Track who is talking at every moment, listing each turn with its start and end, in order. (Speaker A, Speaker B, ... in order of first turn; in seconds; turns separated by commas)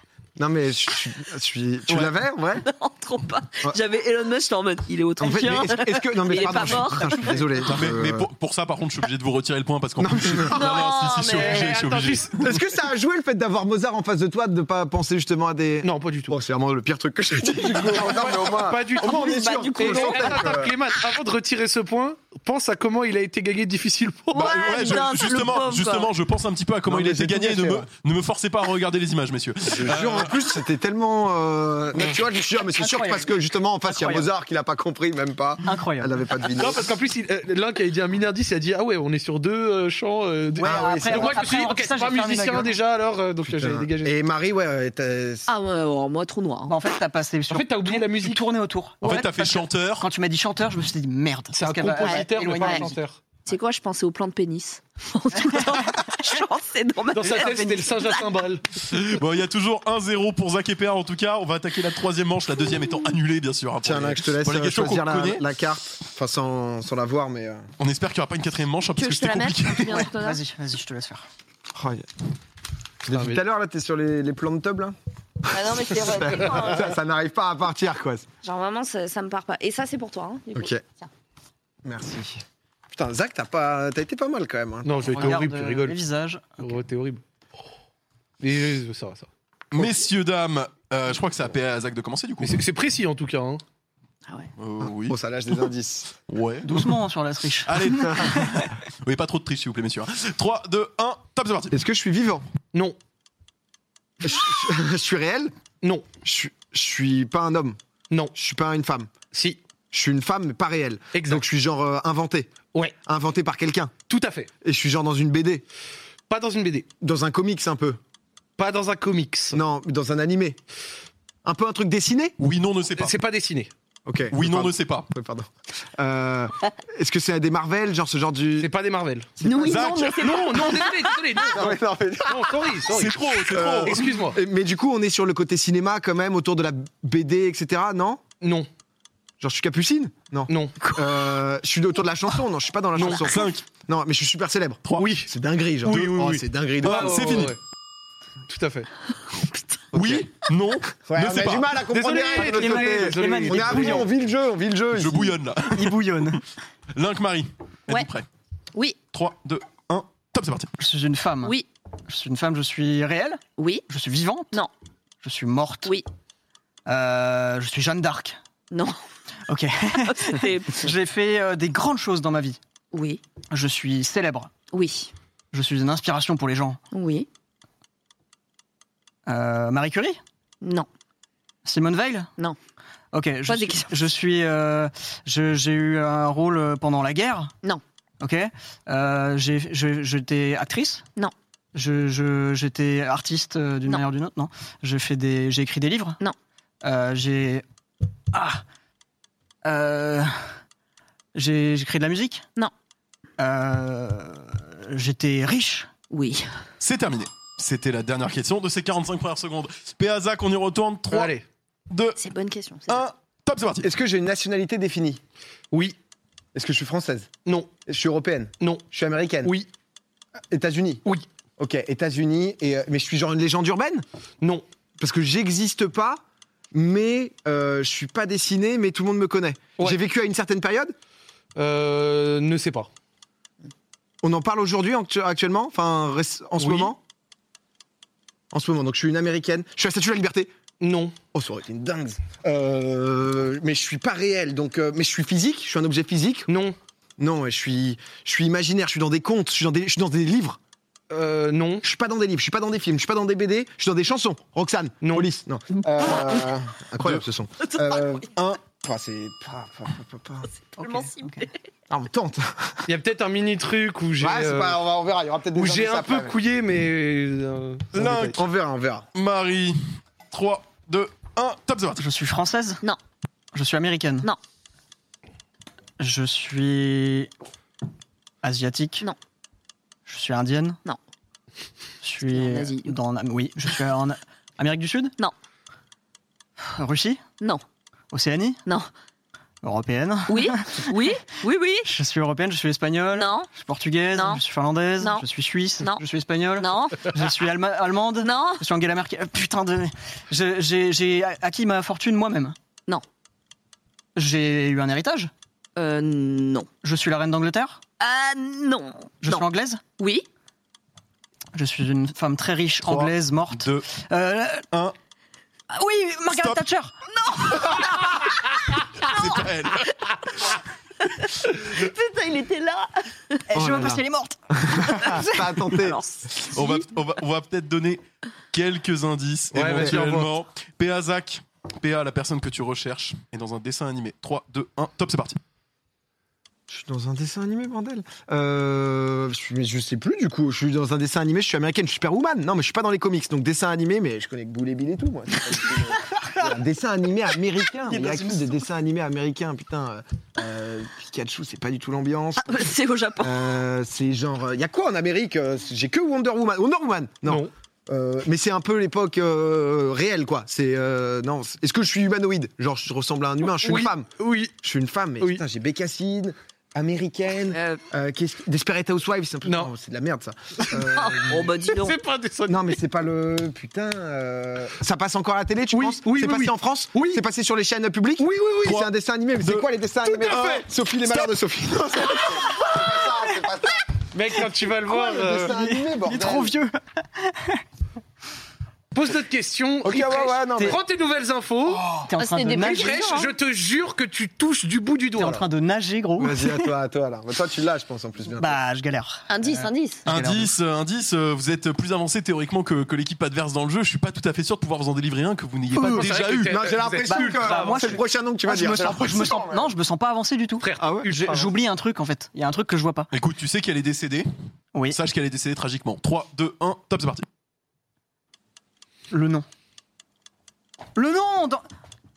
Speaker A: 0.4-2.7, Speaker B: 2.6-7.7, Speaker A: 5.2-8.3, Speaker C: 6.4-7.2, Speaker D: 7.6-12.4, Speaker A: 10.0-10.8, Speaker B: 10.5-11.8, Speaker E: 11.3-12.4, Speaker A: 12.4-20.7, Speaker E: 15.8-16.4, Speaker E: 17.8-24.8, Speaker B: 19.0-20.6, Speaker B: 24.3-26.1, Speaker D: 24.4-30.4, Speaker A: 26.9-27.9, Speaker A: 29.7-36.8, Speaker C: 32.8-33.3, Speaker C: 33.9-34.3, Speaker C: 35.6-36.1, Speaker E: 36.5-44.1, Speaker C: 40.6-42.7, Speaker A: 40.6-41.4, Speaker A: 43.5-45.5, Speaker B: 45.5-46.8, Speaker C: 46.7-53.0, Speaker E: 47.5-48.4, Speaker D: 49.0-50.1, Speaker E: 51.5-53.2, Speaker B: 52.0-52.9, Speaker B: 53.5-58.3, Speaker E: 57.1-58.9, Speaker C: 57.3-57.6, Speaker D: 58.9-65.4, Speaker A: 63.8-67.7, Speaker D: 67.8-70.1, Speaker B: 69.0-70.4, Speaker C: 69.9-71.3, Speaker A: 71.8-72.1, Speaker A: 73.0-75.0, Speaker E: 73.1-73.4, Speaker A: 75.5-78.3, Speaker B: 75.5-76.9, Speaker B: 78.4-81.1, Speaker A: 80.5-80.8, Speaker A: 81.8-85.4, Speaker E: 84.8-86.0, Speaker C: 85.1-86.8, Speaker E: 86.6-87.2, Speaker E: 88.4-89.3, Speaker D: 89.7-92.6, Speaker E: 92.4-93.6, Speaker D: 94.6-95.2, Speaker A: 94.8-96.2, Speaker D: 96.3-97.0, Speaker C: 96.6-98.7, Speaker D: 97.7-101.7, Speaker A: 101.7-102.5, Speaker A: 104.2-105.5, Speaker E: 105.8-106.1, Speaker A: 106.2-107.8, Speaker A: 108.3-109.2, Speaker E: 109.3-109.6, Speaker A: 109.9-114.0, Speaker E: 111.1-111.4, Speaker E: 114.1-114.5, Speaker A: 114.6-115.6, Speaker E: 116.3-116.9, Speaker A: 117.0-118.0, Speaker E: 118.6-119.6, Speaker A: 119.5-120.6, Speaker A: 121.4-122.4, Speaker D: 122.4-123.2, Speaker E: 123.0-123.7, Speaker A: 124.1-128.7, Speaker D: 124.3-125.1, Speaker E: 128.6-129.3, Speaker A: 129.4-129.9, Speaker B: 129.4-131.4, Speaker D: 129.5-130.8, Speaker E: 130.2-134.4, Speaker A: 131.5-132.8, Speaker D: 132.9-134.1, Speaker A: 133.5-138.2, Speaker E: 138.4-138.7, Speaker A: 139.4-147.5, Speaker E: 140.5-140.8, Speaker E: 143.0-143.3, Speaker D: 143.0-143.7, Speaker D: 144.8-145.1, Speaker E: 145.0-145.3, Speaker E: 145.8-147.6, Speaker D: 145.9-147.6, Speaker E: 148.5-148.9, Speaker B: 149.3-149.6, Speaker A: 149.9-150.3, Speaker D: 149.9-151.8, Speaker A: 151.1-155.4, Speaker E: 151.9-154.1, Speaker C: 152.3-154.1, Speaker D: 154.9-156.0, Speaker C: 155.7-156.4, Speaker D: 156.9-158.3, Speaker D: 159.1-160.7, Speaker C: 160.8-161.6, Speaker C: 162.1-164.6, Speaker B: 163.6-163.8, Speaker C: 165.2-166.0, Speaker C: 166.9-168.4, Speaker B: 168.7-169.0, Speaker C: 169.5-172.6, Speaker B: 170.0-170.9, Speaker B: 172.9-173.2, Speaker C: 173.5-174.5, Speaker B: 174.7-175.1, Speaker C: 175.5-176.8, Speaker B: 176.9-177.3, Speaker C: 179.3-180.2, Speaker B: 180.6-180.9, Speaker C: 181.7-182.3, Speaker C: 183.1-187.5, Speaker B: 183.5-183.9, Speaker C: 188.2-191.1, Speaker C: 191.7-196.2, Speaker C: 196.8-197.7, Speaker C: 198.3-198.6, Speaker C: 199.6-200.5, Speaker C: 201.3-202.4, Speaker C: 203.4-205.9, Speaker B: 206.1-206.5, Speaker D: 206.8-211.3, Speaker E: 211.1-211.4, Speaker D: 211.9-212.2, Speaker B: 212.2-213.1, Speaker D: 212.9-213.9, Speaker A: 213.8-215.2, Speaker E: 215.7-216.0, Speaker A: 216.5-217.3, Speaker E: 217.4-217.7, Speaker A: 217.9-219.5, Speaker A: 220.5-221.0, Speaker A: 221.6-224.1, Speaker A: 225.0-226.2, Speaker A: 226.7-230.9, Speaker E: 231.6-232.9, Speaker A: 234.2-237.0, Speaker E: 236.6-236.9, Speaker A: 238.5-240.5, Speaker E: 240.8-241.2, Speaker A: 241.3-246.5, Speaker E: 246.5-246.8, Speaker A: 247.2-250.6, Speaker E: 251.1-251.8, Speaker A: 251.8-260.5, Speaker E: 255.0-255.3, Speaker B: 257.7-258.1, Speaker B: 260.8-261.5, Speaker C: 260.8-261.4, Speaker A: 261.9-262.8, Speaker E: 262.9-264.8, Speaker A: 264.2-266.4, Speaker E: 265.6-268.1, Speaker D: 267.9-268.4, Speaker A: 268.0-269.1, Speaker D: 269.1-272.0, Speaker C: 272.0-272.8, Speaker C: 273.5-274.3, Speaker C: 276.0-277.3, Speaker C: 278.4-279.1, Speaker C: 280.1-280.8, Speaker C: 282.0-285.1, Speaker B: 282.3-282.9, Speaker C: 286.6-287.2, Speaker C: 288.1-288.6, Speaker C: 289.6-290.9, Speaker B: 290.3-291.9, Speaker C: 291.9-302.6, Speaker B: 293.2-293.5, Speaker B: 294.1-294.4, Speaker B: 295.0-295.3, Speaker B: 296.6-297.2, Speaker B: 298.2-298.6, Speaker C: 304.2-305.3, Speaker B: 305.8-306.7, Speaker C: 306.8-307.8, Speaker B: 308.0-309.5, Speaker C: 309.2-309.8, Speaker B: 310.0-310.3, Speaker C: 311.5-314.7, Speaker D: 312.9-313.9, Speaker C: 315.7-316.9, Speaker D: 316.3-316.6, Speaker B: 317.1-318.3, Speaker D: 317.6-318.4, Speaker D: 319.0-320.5, Speaker B: 321.0-323.4, Speaker C: 323.5-324.4, Speaker A: 323.5-326.0, Speaker B: 324.9-326.9, Speaker D: 326.4-328.0, Speaker D: 328.5-335.4, Speaker E: 329.5-330.3, Speaker A: 329.6-330.0, Speaker A: 336.7-352.7, Speaker C: 347.9-348.6, Speaker B: 352.4-353.3, Speaker A: 353.2-371.5, Speaker E: 357.3-357.5, Speaker E: 363.6-364.5, Speaker B: 367.5-367.8, Speaker E: 369.4-369.7, Speaker B: 370.9-372.0, Speaker E: 371.6-372.7, Speaker A: 372.5-383.9, Speaker E: 375.7-377.2, Speaker E: 378.2-378.6, Speaker D: 378.6-378.9, Speaker D: 379.4-379.7, Speaker E: 380.1-380.6, Speaker D: 380.3-380.6, Speaker C: 382.2-382.9, Speaker E: 384.1-385.5, Speaker C: 384.9-387.6, Speaker A: 384.9-386.5, Speaker E: 388.9-391.9, Speaker A: 389.8-390.8, Speaker A: 391.7-392.1, Speaker C: 392.0-393.0, Speaker B: 392.2-393.3, Speaker E: 392.7-395.5, Speaker C: 395.2-396.7, Speaker A: 396.2-398.6, Speaker C: 398.4-400.5, Speaker B: 399.3-400.1, Speaker D: 400.1-406.6, Speaker E: 405.8-407.9, Speaker A: 406.5-409.7, Speaker C: 407.1-413.1, Speaker E: 410.6-411.6, Speaker A: 410.8-411.1, Speaker D: 413.1-414.3, Speaker D: 414.9-417.3, Speaker C: 419.1-419.5, Speaker C: 421.0-421.6